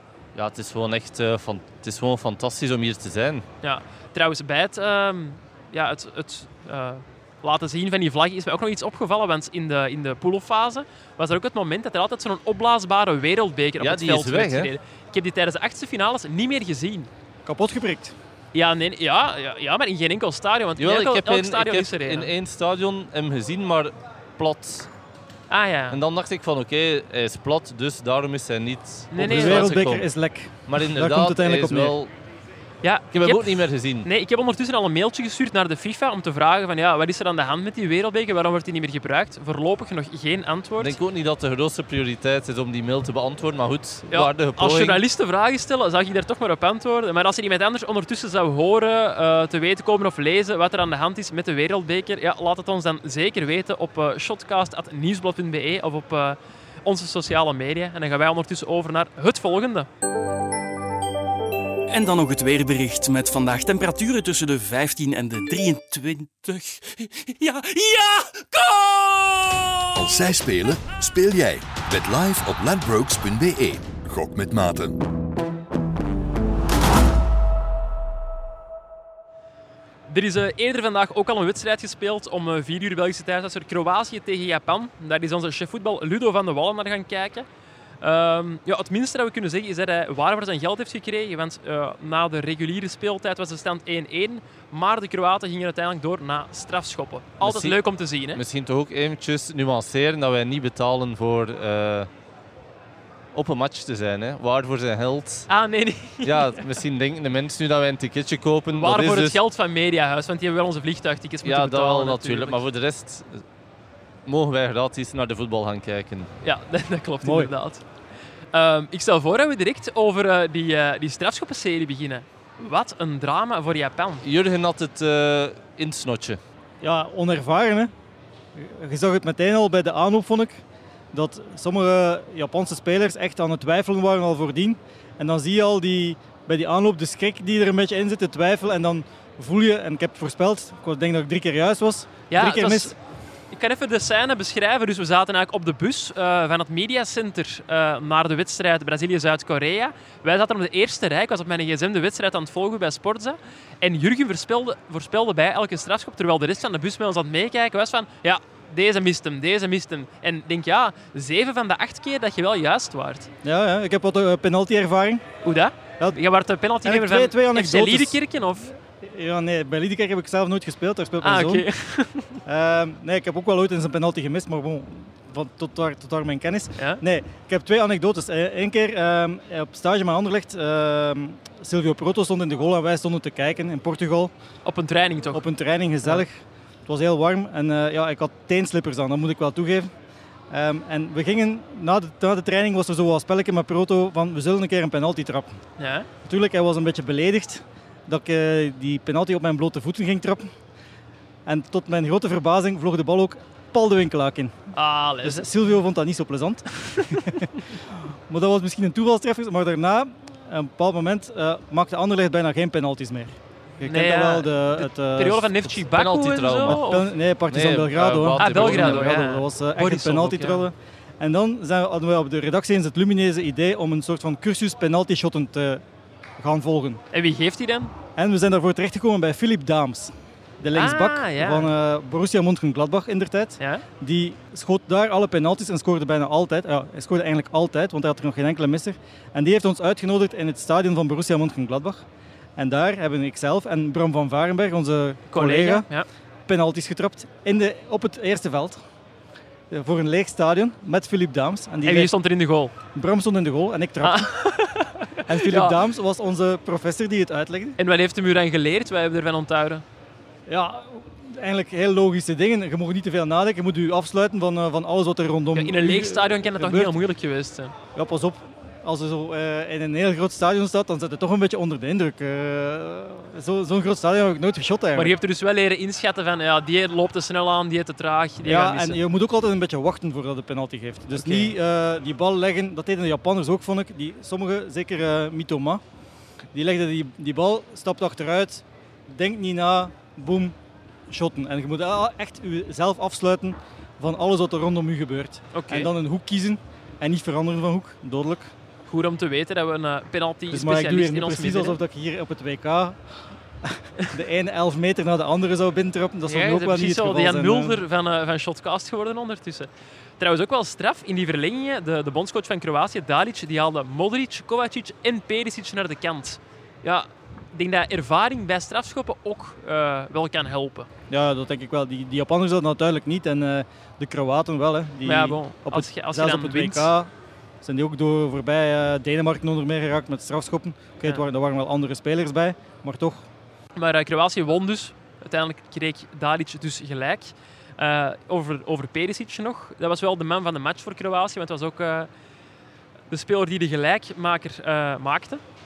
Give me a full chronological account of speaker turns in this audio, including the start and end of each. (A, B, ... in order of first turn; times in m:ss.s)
0:00.4-0:03.4 A
0:03.6-0:17.1 B
0:13.8-0:14.7 A
0:17.5-0:18.2 C
0:18.5-0:22.3 B
0:20.8-0:24.9 A
0:25.5-0:26.0 B
0:25.9-0:30.1 A
0:29.1-0:29.7 B
0:29.2-0:32.0 C
0:30.7-0:32.1 A
0:32.8-0:41.0 B
0:33.1-0:34.1 A
0:40.8-0:45.0 A
0:44.1-0:59.9 B
1:01.9-1:09.9 D
1:10.0-1:15.0 E
1:20.1-1:27.5 B
1:28.0-1:38.4 B
1:37.4-1:37.8 A
1:38.3-1:42.1 A
1:43.4-1:45.5 A
1:45.5-1:46.6 B
1:46.2-1:49.4 A
1:48.8-1:52.6 B
1:51.4-1:53.4 A
1:54.3-1:56.3 A
1:56.4-1:57.8 B
1:57.2-1:57.5 C
1:58.5-2:04.2 B
2:04.2-2:06.4 A
2:06.8-2:07.9 C
2:08.6-2:10.6 C
2:11.1-2:22.9 C
2:22.3-2:23.0 B
2:23.5-2:43.3 B
2:43.4-2:45.2 C
2:45.4-2:48.7 B
2:46.8-2:48.2 C
2:48.9-2:51.7 C
2:51.2-2:52.4 B
2:52.5-3:04.3 C
3:04.6-3:05.4 B
3:05.3-3:09.9 C
3:10.5-3:15.5 C
3:15.8-3:16.1 B
3:16.2-3:20.5 C
3:21.5-3:24.6 C
3:24.7-3:25.5 B
3:25.2-3:35.6 C
3:33.8-3:37.1 B
3:35.9-3:36.8 A
3:36.7-3:45.8 C
3:37.5-3:39.2 A
3:38.4-3:40.6 B
3:46.4-3:47.0 C
3:47.1-3:47.9 B
3:48.2-4:02.0 C
3:50.7-3:51.7 B
4:02.6-4:05.9 C
4:05.3-4:06.1 B
4:06.5-4:08.8 C
4:09.7-4:12.1 C
4:11.8-4:12.7 B
4:12.9-4:14.3 C
4:14.0-4:15.8 B
4:15.3-4:17.8 C
4:17.8-4:19.8 B
4:20.5-4:27.0 C
4:25.5-4:27.8 B
4:28.0-4:35.2 C
4:35.0-4:39.0 B
4:38.4-4:45.8 C
4:41.1-4:41.5 B
4:46.5-4:50.6 C
4:51.1-4:58.5 C
4:55.5-4:55.9 B
4:58.9-5:01.8 B
5:00.5-5:03.0 C
5:03.6-5:07.8 C
5:06.3-5:20.9 B
5:21.1-5:27.1 C
5:25.0-5:26.9 B
5:27.6-5:33.3 C
5:33.8-5:42.1 B
5:43.1-5:45.4 B